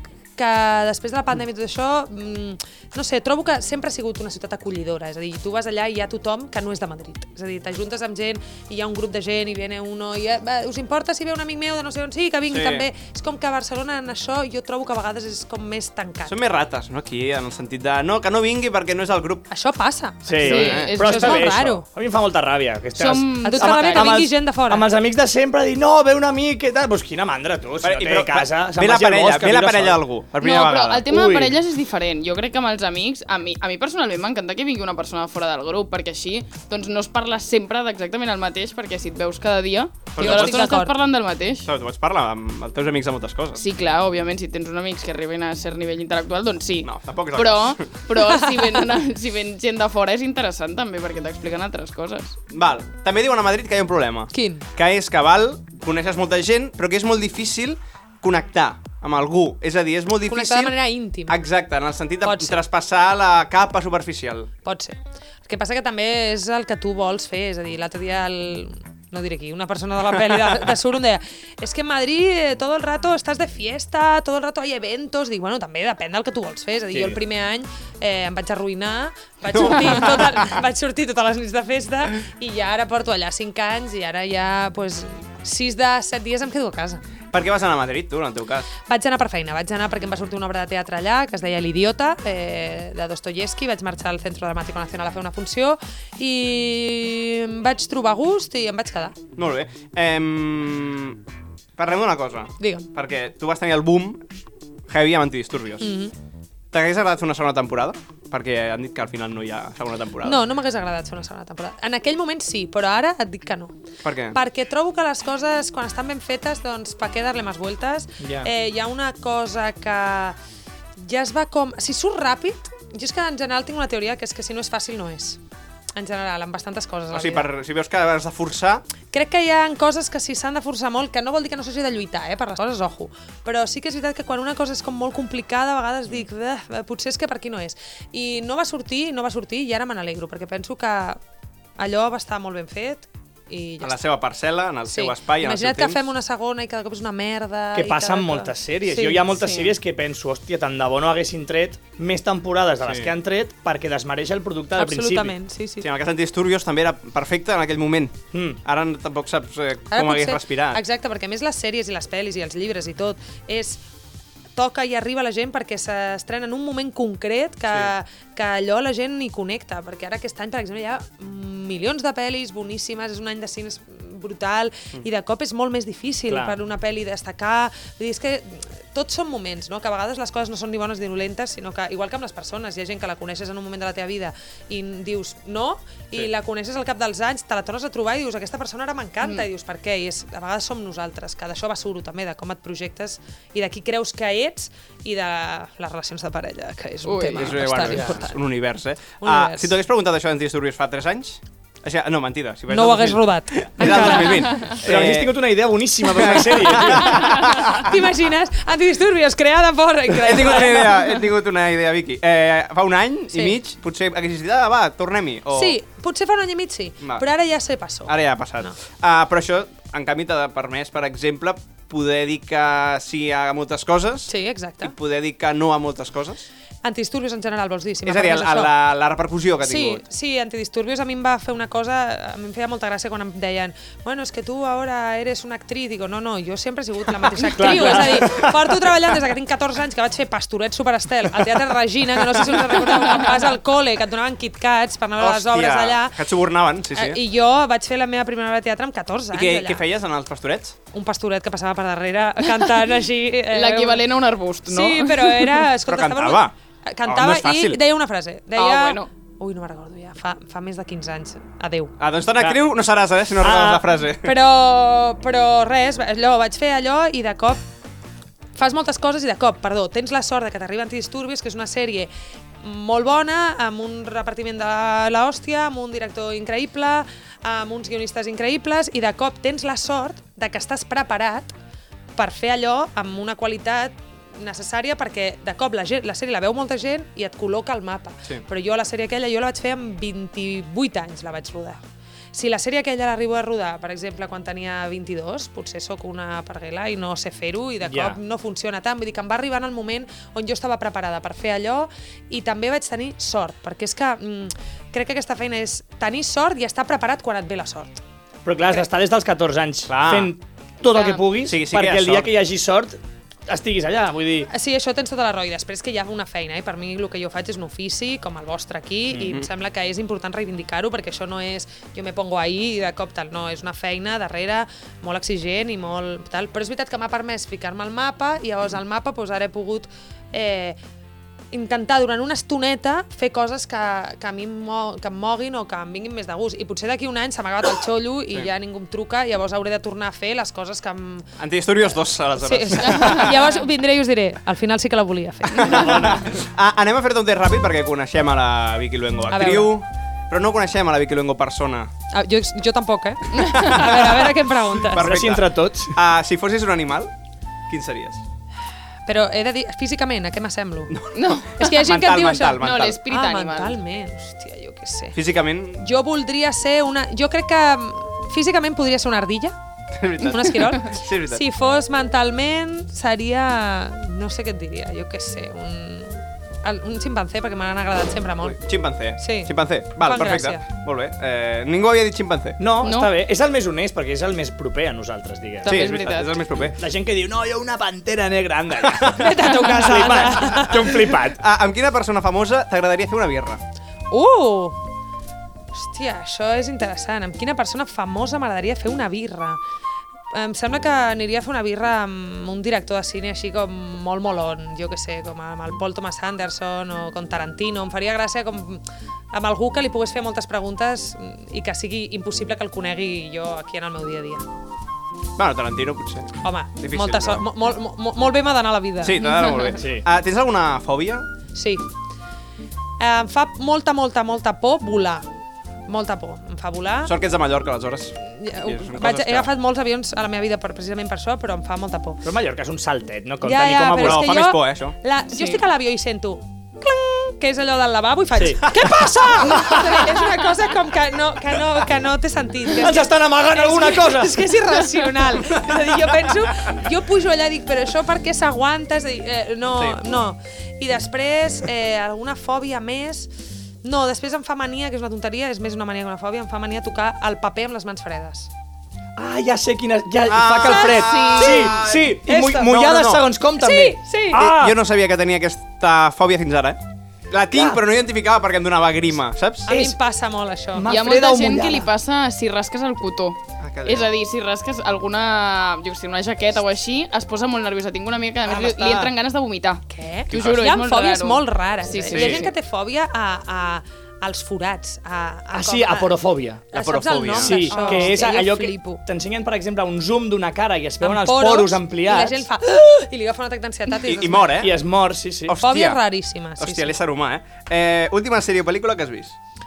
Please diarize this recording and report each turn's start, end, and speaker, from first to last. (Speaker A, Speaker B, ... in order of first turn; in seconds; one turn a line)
Speaker A: 0.3-16.4
Speaker B: 12.5-12.9
Speaker B: 16.2-19.5
Speaker A: 19.5-21.9
Speaker C: 20.2-30.0
Speaker D: 20.4-21.5
Speaker B: 20.5-20.9
Speaker D: 22.9-24.1
Speaker A: 23.4-24.9
Speaker B: 27.8-31.1
Speaker D: 30.4-41.7
Speaker C: 31.1-31.6
Speaker B: 40.1-40.7
Speaker A: 40.2-40.9
Speaker B: 41.6-43.6
Speaker D: 43.5-52.4
Speaker B: 46.8-47.8
Speaker B: 52.5-60.7
Speaker A: 54.3-54.6
Speaker A: 60.3-61.4
Speaker B: 61.3-64.5
Speaker A: 62.2-62.6
Speaker A: 64.6-87.0
Speaker C: 76.9-77.2
Speaker B: 79.5-80.4
Speaker B: 87.3-88.7
Speaker A: 88.8-99.2
Speaker B: 99.3-101.2
Speaker B: 101.8-104.2
Speaker A: 102.6-102.8
Speaker B: 104.9-105.9
Speaker A: 105.8-106.1
Speaker B: 106.7-110.4
Speaker A: 110.2-113.8
Speaker B: 114.0-114.4
Speaker A: 114.3-120.3
Speaker C: 118.2-118.5
Speaker A: 121.0-125.4
Speaker A: 126.0-127.5
Speaker B: 127.1-128.8
Speaker A: 129.1-141.2
Speaker A: 141.8-144.0
Speaker B: 143.8-146.0
Speaker A: 144.9-149.3
Speaker C: 147.7-155.3
Speaker D: 149.3-149.7
Speaker B: 152.8-153.1
Speaker A: 154.8-155.9
Speaker B: 155.8-160.8
Speaker C: 158.3-158.6
Speaker A: 159.9-163.8
Speaker A: 164.5-198.4
Speaker C: 176.3-176.6
Speaker D: 189.2-189.5
Speaker D: 197.0-197.6
Speaker B: 197.3-205.3
Speaker A: 199.2-199.7
Speaker A: 202.7-204.8
Speaker D: 204.3-204.7
Speaker C: 204.7-207.2
Speaker B: 206.1-207.9
Speaker A: 206.9-211.2
Speaker B: 210.2-215.8
Speaker A: 215.5-218.7
Speaker B: 218.1-226.4
Speaker A: 224.3-224.9
Speaker A: 226.8-228.7
Speaker B: 228.0-230.0
Speaker A: 229.6-246.2
Speaker C: 237.5-238.6
Speaker B: 245.2-247.2
Speaker A: 246.9-249.8
Speaker B: 249.3-250.8
Speaker A: 250.9-254.0
Speaker D: 253.5-255.7
Speaker A: 254.7-261.9
Speaker B: 255.8-256.5
Speaker B: 257.0-257.8
Speaker D: 258.6-259.1
Speaker B: 262.0-264.4
Speaker C: 263.4-263.8
Speaker A: 264.2-267.6
Speaker A: 268.5-272.1
Speaker A: 272.6-281.5
Speaker A: 282.1-291.8
Speaker A: 292.3-308.0
Speaker C: 297.8-298.2
Speaker C: 308.4-313.0
Speaker B: 309.9-310.3
Speaker B: 311.4-312.3
Speaker C: 313.5-314.5
Speaker A: 314.5-330.8
Speaker B: 319.1-319.4
Speaker A: 331.5-341.3
Speaker B: 341.4-343.5
Speaker A: 342.4-346.2
Speaker D: 342.8-343.6
Speaker D: 345.5-346.1
Speaker B: 345.6-351.9
Speaker A: 349.3-349.7
Speaker A: 352.1-355.1
Speaker D: 353.3-354.0
Speaker B: 353.6-357.1
Speaker C: 355.0-355.9
Speaker B: 357.7-358.2
Speaker A: 359.1-361.0
Speaker B: 360.9-363.0
Speaker D: 361.1-361.5
Speaker A: 361.6-365.2
Speaker D: 362.6-363.8
Speaker B: 365.1-365.9
Speaker A: 365.8-369.6
Speaker B: 369.9-371.4
Speaker A: 370.2-378.6
Speaker B: 378.4-382.6
Speaker A: 379.2-380.6
Speaker C: 382.6-385.9
Speaker D: 382.8-383.1
Speaker D: 385.6-386.4
Speaker B: 385.6-386.8
Speaker C: 386.8-391.4
Speaker B: 388.9-389.2
Speaker A: 389.1-390.9
Speaker B: 390.1-393.6
Speaker A: 394.1-394.8
Speaker A: 395.7-399.6
Speaker A: 400.3-414.4
Speaker B: 415.4-417.4
Speaker A: 416.4-419.3
Speaker B: 419.0-421.3
Speaker D: 419.2-419.8
Speaker C: 419.8-420.0
Speaker A: 421.5-421.8
Speaker A: 423.0-425.2
Speaker A: 425.9-427.1
Speaker B: 427.0-429.5
Speaker A: 428.3-432.2
Speaker C: 432.2-434.3
Speaker A: 433.4-453.3
Speaker B: 434.0-434.9
Speaker D: 435.3-435.6
Speaker C: 438.4-438.9
Speaker C: 439.5-439.9
Speaker C: 442.7-444.4
Speaker B: 449.7-450.2
Speaker A: 453.8-458.5
Speaker C: 459.2-464.8
Speaker B: 460.3-463.3
Speaker A: 460.6-461.7
Speaker D: 461.0-461.6
Speaker A: 463.6-464.5
Speaker B: 464.4-469.8
Speaker C: 467.5-467.8
Speaker A: 469.7-470.9
Speaker C: 469.7-469.9
Speaker C: 470.7-471.9
Speaker D: 470.9-482.5
Speaker B: 473.6-474.1
Speaker B: 478.8-479.1
Speaker A: 479.9-486.2
Speaker B: 480.3-480.7
Speaker B: 482.1-482.5
Speaker C: 485.5-486.7
Speaker A: 486.7-489.0
Speaker B: 486.7-488.1
Speaker C: 487.3-492.4
Speaker A: 491.0-494.6
Speaker B: 494.0-494.7
Speaker C: 494.6-495.6
Speaker B: 495.4-496.0
Speaker A: 495.6-496.9
Speaker B: 496.6-499.4